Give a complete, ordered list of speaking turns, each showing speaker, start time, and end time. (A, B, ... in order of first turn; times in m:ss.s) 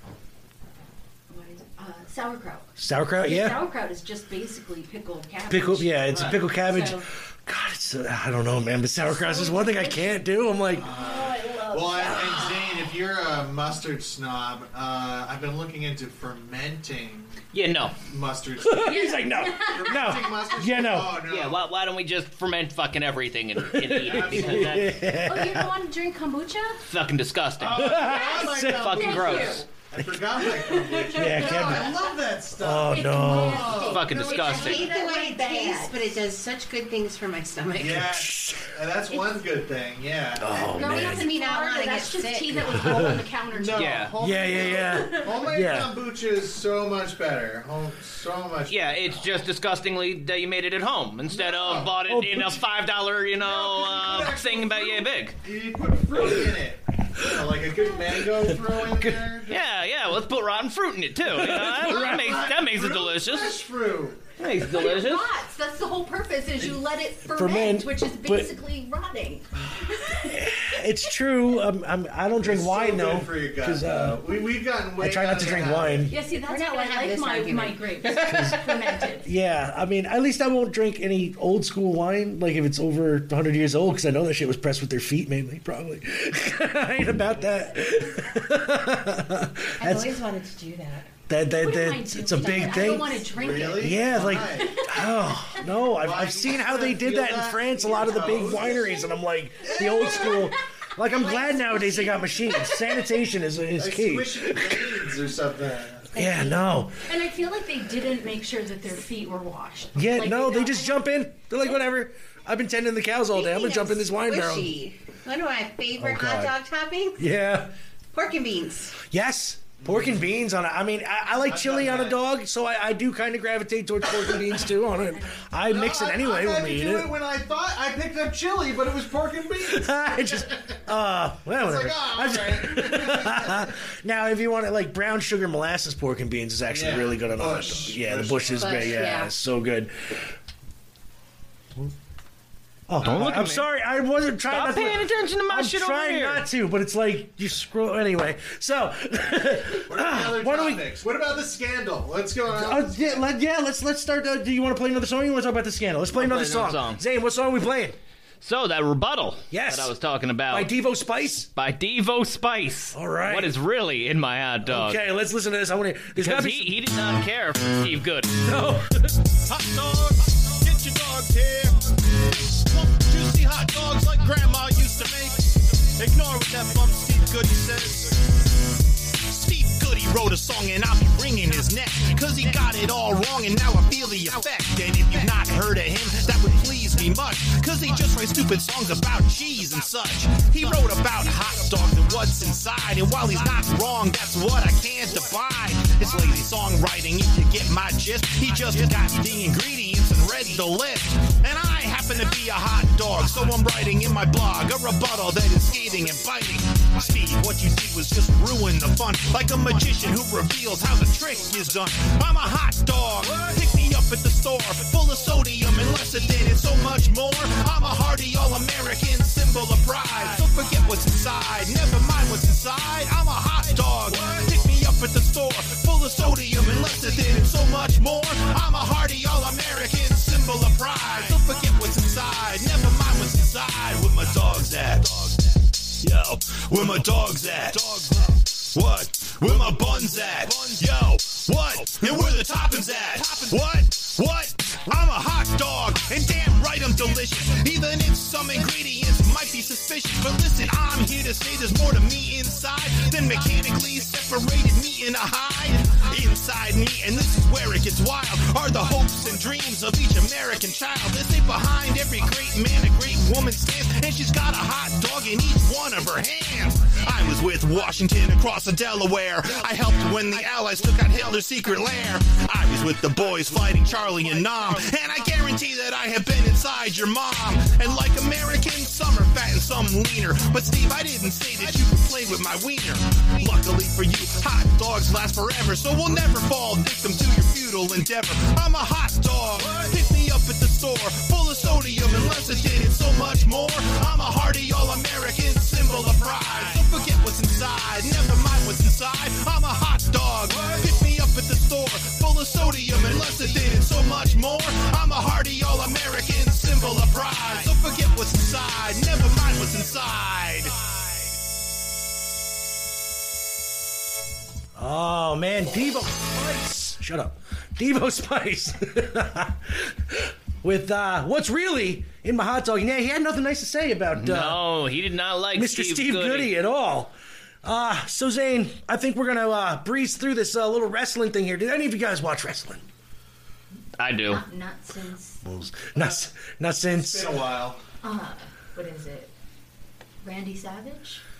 0:01.3-0:02.7 A
0:02.8-0:03.6 B
0:03.2-0:07.0 A
0:05.5-0:10.9 B
0:06.1-0:06.4 C
0:09.0-0:12.9 A
0:10.8-0:17.4 C
0:17.5-0:18.0 D
0:18.1-0:19.0 C
0:18.6-0:21.2 B
0:18.8-0:20.3 A
0:19.7-0:21.6 C
0:21.3-0:25.0 D
0:23.7-0:25.7 B
0:24.0-0:24.9 C
0:25.2-0:26.8 A
0:26.9-0:29.6 D
0:27.6-0:34.6 C
0:27.7-0:29.0 B
0:28.0-0:29.6 A
0:30.4-0:32.2 A
0:31.1-0:31.9 B
0:32.6-0:33.9 B
0:32.9-0:36.1 A
0:33.8-0:34.9 D
0:34.3-0:38.2 E
0:37.8-0:40.9 C
0:38.0-0:38.7 B
0:40.4-0:41.3 B
0:40.8-0:45.3 A
0:40.8-0:43.1 E
0:42.8-0:43.2 B
0:43.5-0:49.2 C
0:43.8-0:44.1 D
0:44.2-0:45.9 B
0:48.7-0:55.4 D
0:51.3-0:52.0 C
0:52.1-0:52.6 B
0:53.4-0:59.7 C
0:59.5-1:03.6 D
1:01.3-1:02.4 B
1:01.6-1:04.2 C
1:04.4-1:05.2 D
1:04.6-1:10.5 A
1:07.3-1:08.5 B
1:10.3-1:14.4 B
1:12.4-1:16.1 C
1:15.0-1:16.1 B
1:16.1-1:19.3 A
1:16.3-1:18.3 E
1:18.0-1:30.2 B
1:27.8-1:28.1 A
1:29.8-1:31.1 E
1:31.3-1:45.1 B
1:31.5-1:35.6 A
1:33.3-1:34.9 C
1:35.9-1:39.0 C
1:38.6-1:39.0 A
1:39.6-1:40.5 C
1:39.8-1:40.5 A
1:41.0-1:43.2 A
1:43.8-1:46.1 C
1:46.2-1:46.6 E
1:46.2-1:47.0 B
1:47.1-1:51.0 A
1:50.0-1:54.7 B
1:53.3-1:57.2 E
1:56.0-1:56.6 B
1:57.2-1:57.7 B
1:58.1-1:59.0 E
1:59.1-2:07.1 B
1:59.8-2:00.3 C
2:01.4-2:02.2 C
2:05.2-2:05.4 A
2:05.7-2:10.8 C
2:09.6-2:20.3 B
2:11.6-2:13.7 C
2:16.7-2:19.1 C
2:18.6-2:19.3 E
2:22.9-2:30.9 B
2:23.0-2:23.7 D
2:24.5-2:26.5 D
2:29.8-2:33.2 C
2:32.5-2:38.0 B
2:36.1-2:37.0 D
2:38.4-2:40.7 D
2:39.5-2:39.9 B
2:40.5-2:41.5 B
2:41.6-2:45.0 D
2:42.9-2:43.6 B
2:44.7-2:46.8 B
2:46.2-2:48.4 D
2:48.4-2:49.2 B
2:49.5-2:58.2 F
2:59.2-3:55.4 F
3:56.0-5:10.8 F
5:14.8-5:24.6 B
5:24.1-5:26.5 D
5:25.5-5:32.8 B
5:34.0-5:34.4 D
5:34.3-5:35.4 A
5:35.4-5:37.4 B
5:37.0-5:37.8 C
5:38.0-5:39.3 A
5:40.2-5:41.2 A